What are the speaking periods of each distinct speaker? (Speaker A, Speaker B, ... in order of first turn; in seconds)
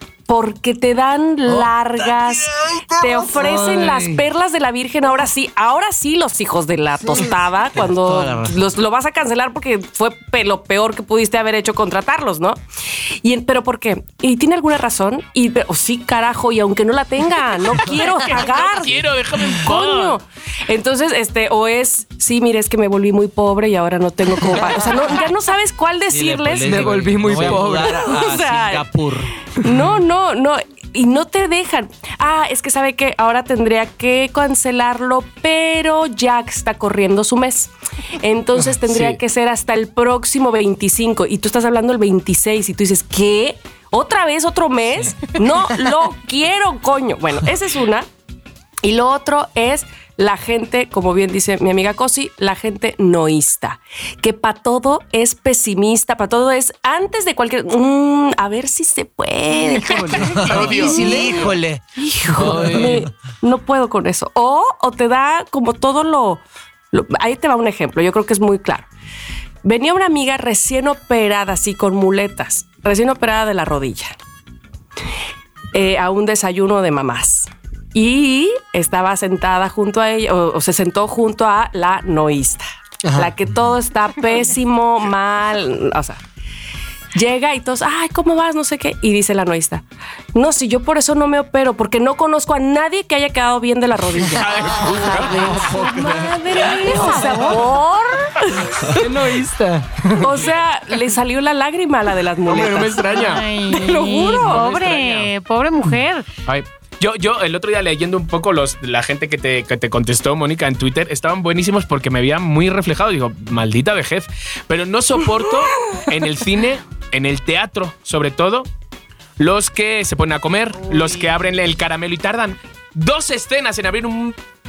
Speaker A: 0.3-12.6, 13.2-19.0, 19.5-28.9, 29.4-48.1, 48.8-68.9, 69.6-74.2, 75.7-86.2, 87.2-99.0, 100.2-104.6
Speaker B: 1.4-3.9, 7.0-8.6, 26.1-29.4, 59.6-63.1, 94.8-97.0
Speaker C: 3.4-4.2, 26.6-28.1, 83.0-83.3, 98.9-100.3
Speaker D: 18.2-20.2, 38.9-39.2, 60.1-61.4, 94.3-95.5, 102.5-103.5, 104.4-105.3, 106.5-118.7, 119.4-124.4
Speaker E: 96.7-97.5, 103.1-106.3